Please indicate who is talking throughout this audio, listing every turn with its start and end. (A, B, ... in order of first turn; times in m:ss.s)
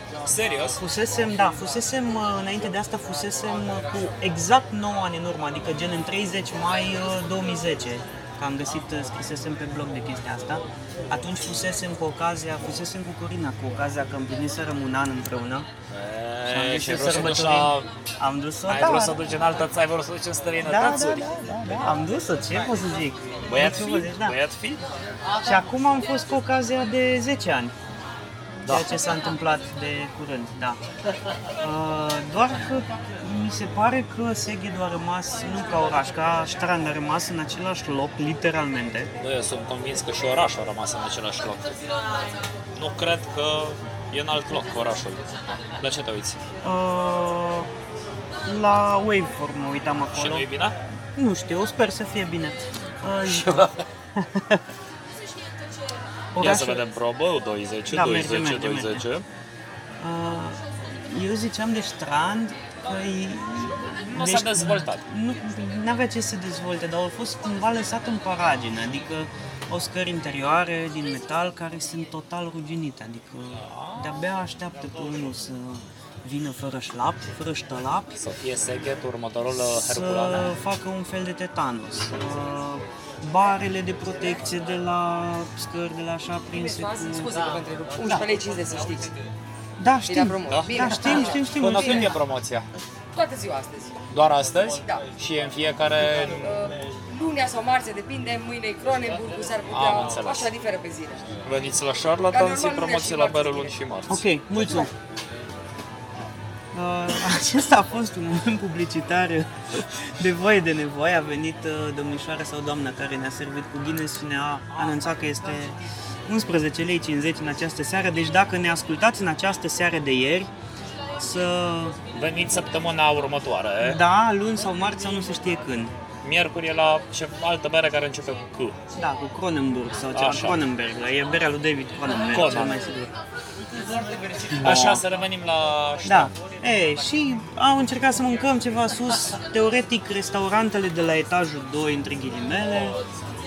0:00.2-0:00.8 A
0:00.8-0:15.7 B
0:15.9-0:17.9 A
0:16.5-0:19.2 B
0:18.7-0:21.9 A
0:20.6-0:24.4 B
0:23.5-0:24.8 A
0:25.4-0:27.7 B
0:28.6-0:28.9 A
0:28.7-0:30.8 B
0:31.6-0:39.1 B
0:39.2-0:41.8 A
0:42.7-0:45.3 A
0:45.8-0:46.4 A
0:46.6-0:47.7 B
0:48.4-0:50.5 B
0:50.1-0:50.8 A
0:51.2-0:54.6 B
0:53.2-0:53.9 A
0:56.3-0:56.8 B
0:56.4-0:59.2 A
0:57.9-0:59.0 B
1:00.0-1:18.2 B
1:04.0-1:05.0 A
1:13.6-1:14.2 A
1:18.2-1:20.5 A
1:19.5-1:27.4 B
1:26.5-1:29.2 C
1:29.8-1:32.2 B
1:30.1-1:31.4 C
1:30.5-1:32.7 A
1:33.2-1:34.0 C
1:34.1-1:36.7 A
1:36.4-1:41.4 C
1:39.7-1:40.5 A
1:41.4-1:44.2 A
1:42.3-1:43.8 C
1:44.1-1:44.9 B
1:46.7-2:00.5 B
2:01.2-2:02.0 B
2:02.1-2:04.0 A
2:03.8-2:05.9 B
2:06.2-2:08.8 A
2:09.0-2:13.1 B
2:10.1-2:10.6 A
2:12.3-2:12.8 A
2:14.5-2:15.0 B
2:14.6-2:16.3 A
2:16.0-2:23.0 B